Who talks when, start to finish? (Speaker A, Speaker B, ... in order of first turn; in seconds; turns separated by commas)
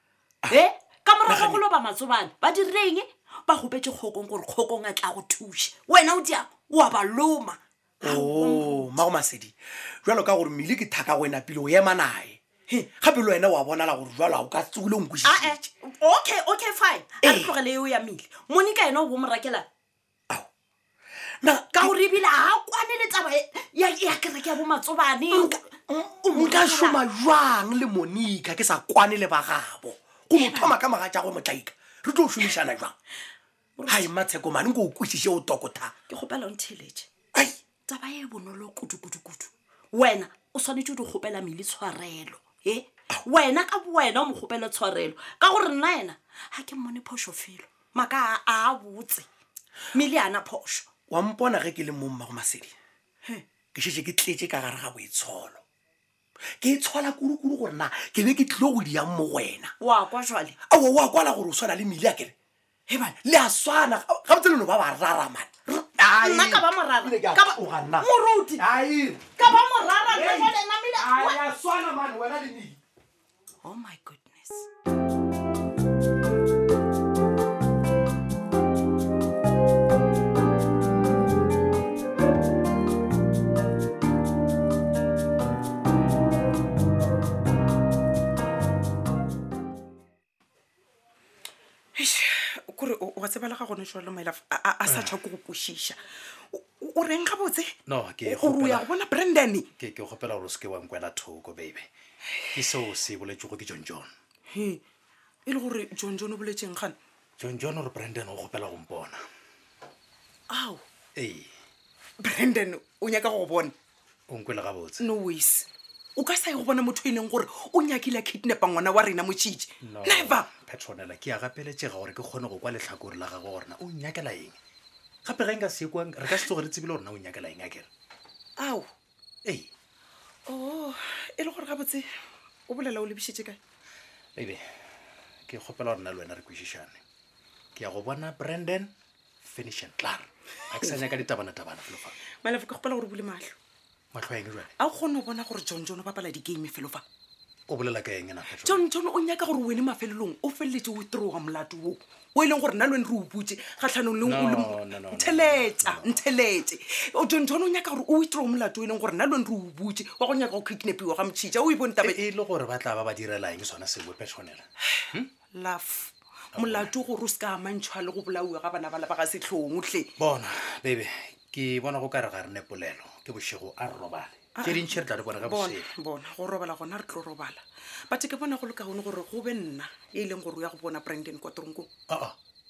Speaker A: 0.5-8.9, Speaker B: 1.2-1.6, Speaker B: 8.0-12.4, Speaker B: 13.0-15.7, Speaker A: 15.2-19.6, Speaker B: 17.2-17.6, Speaker B: 21.4-22.0, Speaker A: 21.7-25.6, Speaker B: 25.3-32.9, Speaker A: 26.2-27.0, Speaker A: 30.3-30.8, Speaker A: 33.8-34.1, Speaker B: 33.9-35.9, Speaker A: 36.1-37.1, Speaker A: 37.9-49.3, Speaker A: 49.9-50.9, Speaker B: 51.1-52.7, Speaker B: 53.7-55.6, Speaker B: 56.6-59.7, Speaker A: 59.8-60.5, Speaker B: 60.7-62.3, Speaker A: 62.9-63.1, Speaker B: 63.2-69.2, Speaker A: 66.1-68.6, Speaker A: 69.4-71.4, Speaker B: 70.1-70.5, Speaker B: 71.4-72.8, Speaker A: 73.6-74.7, Speaker C: 91.9-96.0, Speaker C: 96.5-99.7, Speaker D: 97.9-98.8, Speaker D: 99.8-101.9, Speaker D: 102.5-104.1, Speaker C: 104.5-104.8, Speaker C: 105.5-107.0, Speaker D: 107.4-109.2, Speaker C: 110.5-110.8, Speaker D: 111.2-111.5, Speaker C: 112.2-113.7, Speaker D: 114.3-115.0, Speaker C: 115.0-120.5, Speaker D: 119.8-124.5, Speaker D: 125.2-127.9, Speaker C: 128.6-128.9, Speaker C: 130.4-132.1, Speaker C: 132.7-133.6, Speaker D: 134.3-134.6, Speaker D: 135.5-137.0, Speaker D: 137.8-138.9, Speaker D: 139.4-142.2, Speaker C: 142.4-143.5, Speaker D: 144.1-144.7, Speaker C: 144.8-147.0, Speaker D: 147.7-148.8, Speaker C: 148.5-162.2, Speaker D: 154.2-156.1, Speaker D: 162.1-165.3, Speaker C: 165.5-170.1, Speaker D: 166.6-166.9, Speaker D: 170.2-175.9, Speaker C: 174.5-181.9, Speaker D: 182.1-182.3